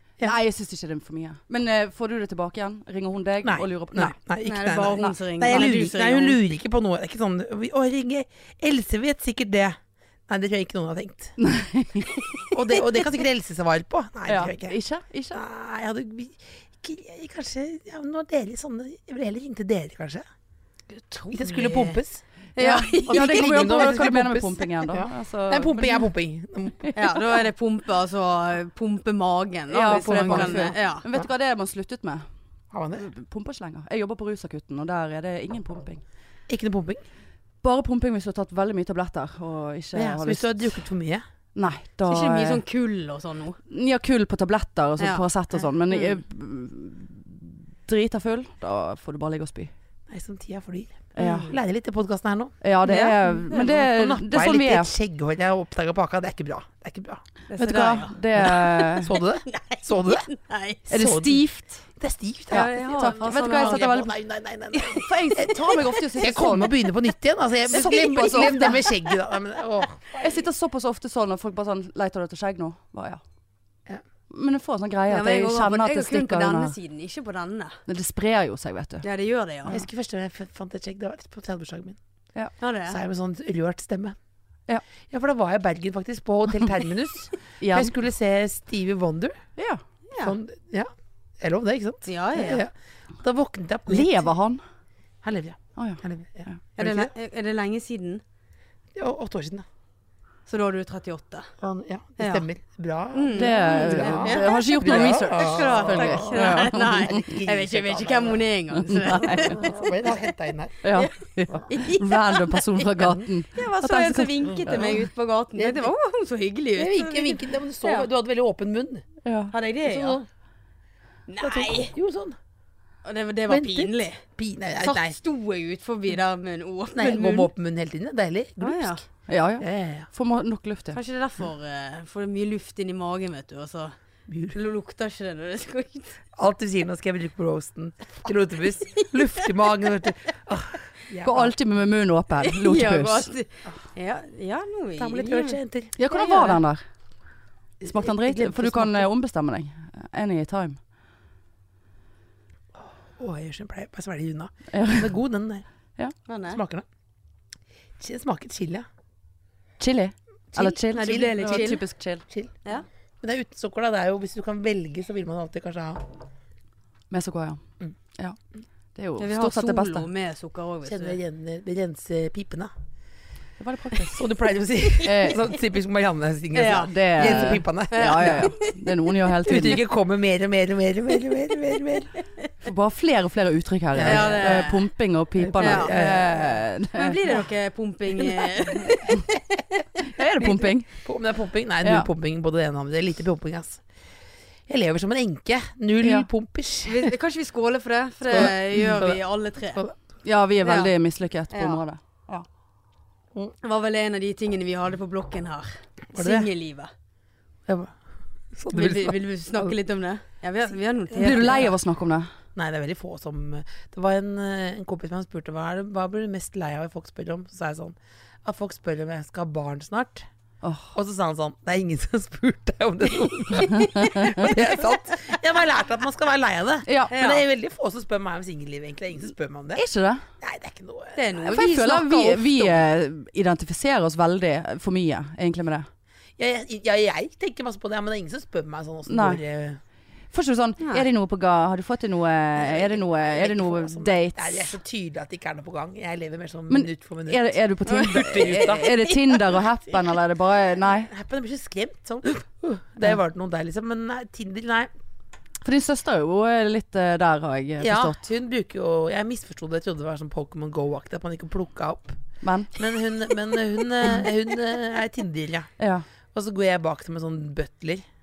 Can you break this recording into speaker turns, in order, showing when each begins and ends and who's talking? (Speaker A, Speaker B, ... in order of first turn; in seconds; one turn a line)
Speaker A: 0.2-4.2
Speaker B: 3.4-9.8
Speaker C: 4.5-6.4
Speaker A: 5.0-5.7
Speaker B: 10.3-11.4
Speaker A: 11.4-12.4
Speaker B: 12.5-14.8
Speaker A: 14.3-15.4
Speaker B: 15.3-20.2
Speaker C: 20.9-22.0
Speaker B: 21.3-22.2
Speaker C: 22.6-23.8
Speaker A: 22.6-26.1
Speaker B: 23.1-27.0
Speaker A: 26.8-27.2
Speaker C: 26.9-31.1
Speaker A: 29.7-32.2
Speaker B: 29.9-31.3
Speaker B: 32.7-33.1
Speaker A: 33.0-36.0
Speaker B: 36.5-37.0
Speaker A: 37.6-40.7
Speaker B: 40.0-41.2
Speaker A: 41.5-42.6
Speaker C: 42.0-43.6
Speaker A: 43.7-49.7
Speaker C: 45.0-45.2
Speaker C: 45.9-46.2
Speaker B: 50.1-52.5
Speaker A: 51.1-51.5
Speaker C: 51.2-51.6
Speaker A: 52.6-54.9
Speaker C: 52.9-53.8
Speaker B: 53.5-60.3
Speaker C: 57.5-58.6
Speaker A: 57.6-59.2
Speaker C: 59.5-60.8
Speaker B: 60.9-61.4
Speaker A: 60.9-61.8
Speaker B: 62.0-65.6
Speaker C: 62.5-63.9
Speaker A: 62.5-64.1
Speaker A: 64.8-66.8
Speaker C: 65.7-66.0
Speaker B: 66.2-70.2
Speaker A: 67.7-69.0
Speaker A: 70.2-73.2
Speaker A: 74.3-76.8
Speaker C: 75.1-77.8
Speaker A: 77.9-79.0
Speaker C: 79.0-79.8
Speaker B: 79.7-82.0
Speaker C: 82.6-83.0
Speaker B: 82.9-84.2
Speaker B: 85.1-89.4
Speaker A: 87.6-87.9
Speaker A: 89.6-89.8
Speaker C: 90.1-90.4
Speaker B: 90.2-90.9
Speaker B: 91.4-94.3
Speaker C: 92.1-92.7
Speaker A: 93.9-94.6
Speaker B: 95.2-97.1
Speaker A: 95.8-96.6
Speaker C: 96.8-98.2
Speaker B: 99.0-99.7
Speaker C: 100.5-101.5
Speaker B: 101.6-108.4
Speaker C: 102.2-102.5
Speaker C: 103.1-110.0
Speaker A: 103.4-107.3
Speaker A: 108.8-109.6
Speaker B: 109.3-110.8
Speaker A: 110.8-115.1
Speaker C: 110.9-111.1
Speaker C: 111.7-118.1
Speaker B: 115.6-115.9
Speaker B: 116.8-119.0
Speaker A: 119.2-119.5
Speaker C: 119.5-120.2
Speaker B: 119.8-120.2
Speaker C: 121.3-121.9
Speaker B: 121.4-122.4
Speaker C: 123.0-124.2
Speaker B: 123.5-125.2
Speaker C: 124.8-127.5
Speaker B: 127.0-129.0
Speaker C: 128.6-129.0
Speaker A: 129.3-131.0
Speaker B: 129.6-130.1
Speaker C: 130.9-133.9
Speaker B: 134.3-134.6
Speaker C: 134.5-136.2
Speaker B: 136.3-141.6
Speaker A: 141.2-143.3
Speaker C: 142.4-146.6
Speaker B: 145.0-145.9
Speaker A: 146.0-146.8
Speaker B: 147.8-149.1
Speaker A: 147.8-150.8
Speaker B: 152.8-155.7
Speaker A: 154.7-155.1
Speaker C: 156.3-156.6
Speaker B: 156.5-156.9
Speaker B: 158.0-158.9
Speaker A: 159.8-162.2
Speaker B: 160.5-162.5
Speaker C: 160.9-161.8
Speaker B: 163.2-166.1
Speaker A: 167.1-167.6
Speaker A: 168.9-170.1
Speaker C: 169.2-171.2
Speaker B: 170.8-172.7
Speaker A: 173.6-174.2
Speaker B: 174.1-178.5
Speaker A: 175.0-175.4
Speaker C: 176.5-178.9
Speaker A: 176.8-179.8
Speaker B: 179.4-182.1
Speaker A: 182.6-187.3
Speaker B: 183.9-184.7
Speaker C: 184.0-184.9
Speaker B: 185.4-186.6
Speaker C: 185.6-186.0
Speaker C: 186.9-189.3
Speaker A: 190.0-190.9
Speaker B: 190.4-193.8
Speaker A: 191.8-192.1
Speaker B: 194.7-197.1
Speaker A: 196.0-196.3
Speaker C: 196.9-199.8
Speaker B: 198.3-199.2
Speaker A: 200.2-202.0
Speaker C: 200.6-200.9
Speaker C: 201.5-201.8
Speaker C: 203.6-206.9
Speaker B: 206.1-206.5
Speaker B: 207.7-207.9
Speaker B: 208.5-209.8
Speaker C: 208.7-211.7
Speaker B: 211.2-211.7
Speaker A: 211.2-212.3
Speaker B: 212.6-220.3
Speaker A: 220.6-220.9
Speaker B: 220.9-229.8
Speaker A: 223.7-224.5
Speaker C: 224.0-224.6
Speaker A: 226.9-227.1
Speaker C: 227.1-227.4
Speaker A: 229.8-230.2
Speaker B: 230.4-231.2
Speaker C: 231.2-232.8
Speaker A: 231.4-235.9
Speaker B: 236.4-239.8
Speaker A: 239.1-239.4
Speaker A: 240.3-244.7
Speaker C: 240.8-241.1
Speaker B: 242.6-247.4
Speaker A: 246.7-251.1
Speaker C: 247.9-249.1
Speaker B: 248.1-248.9
Speaker B: 250.8-254.9
Speaker A: 255.6-258.2
Speaker B: 257.8-262.2
Speaker A: 262.4-262.7
Speaker B: 262.8-265.7
Speaker A: 265.8-266.1
Speaker B: 266.3-268.0